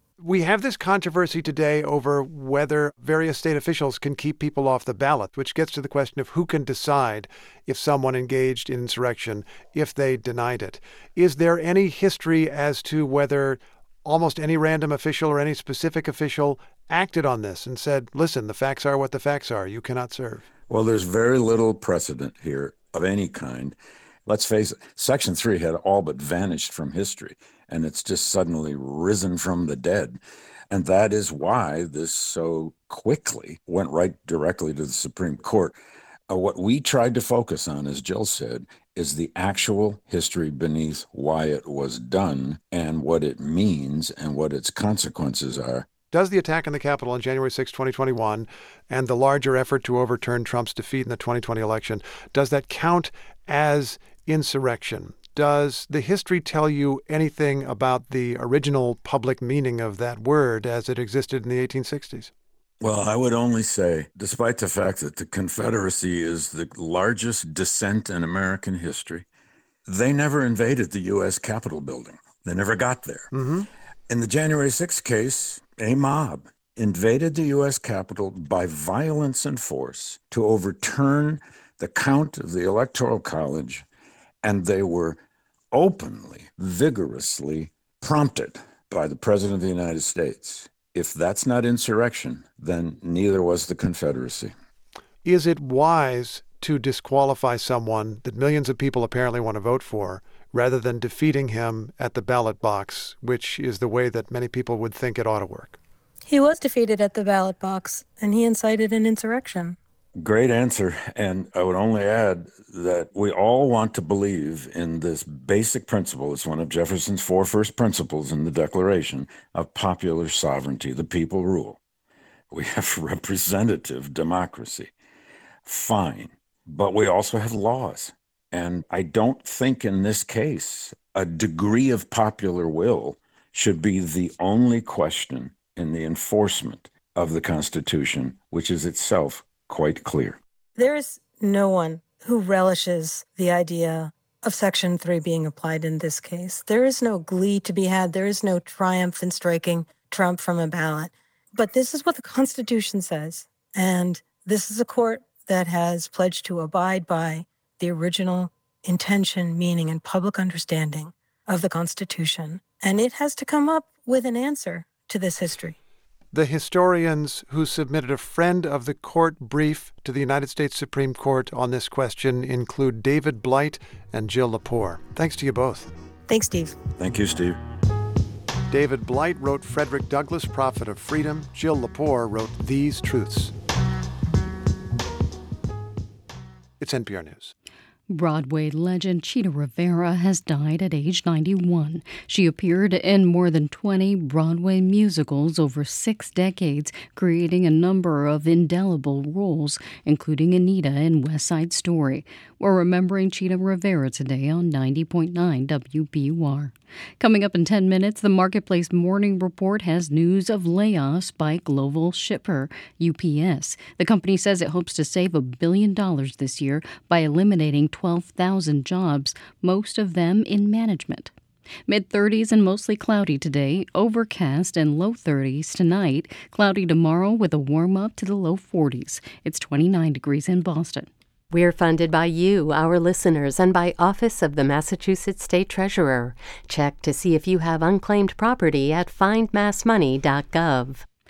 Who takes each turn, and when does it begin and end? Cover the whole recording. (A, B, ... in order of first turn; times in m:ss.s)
0:00.2-0:20.4 A
0:20.7-0:35.8 B
0:36.3-0:45.9 B
0:46.1-1:02.3 A
1:02.8-1:09.2 B
1:09.9-1:13.3 B
1:13.3-1:13.7 A
1:14.1-1:23.8 B
1:24.4-1:25.2 B
1:25.7-1:34.5 B
1:35.2-1:45.8 A
1:46.3-1:49.8 C
1:50.2-2:01.8 B
2:02.5-2:04.9 B
2:05.6-2:20.4 B
2:20.8-2:45.8 C
2:46.3-2:55.9 A
2:56.3-2:56.8 C
2:57.0-2:57.6 B
2:58.7-3:03.5 A
3:06.8-3:07.5 A
3:08.1-3:41.3 D
3:41.9-3:51.1 D
3:51.5-4:01.0 E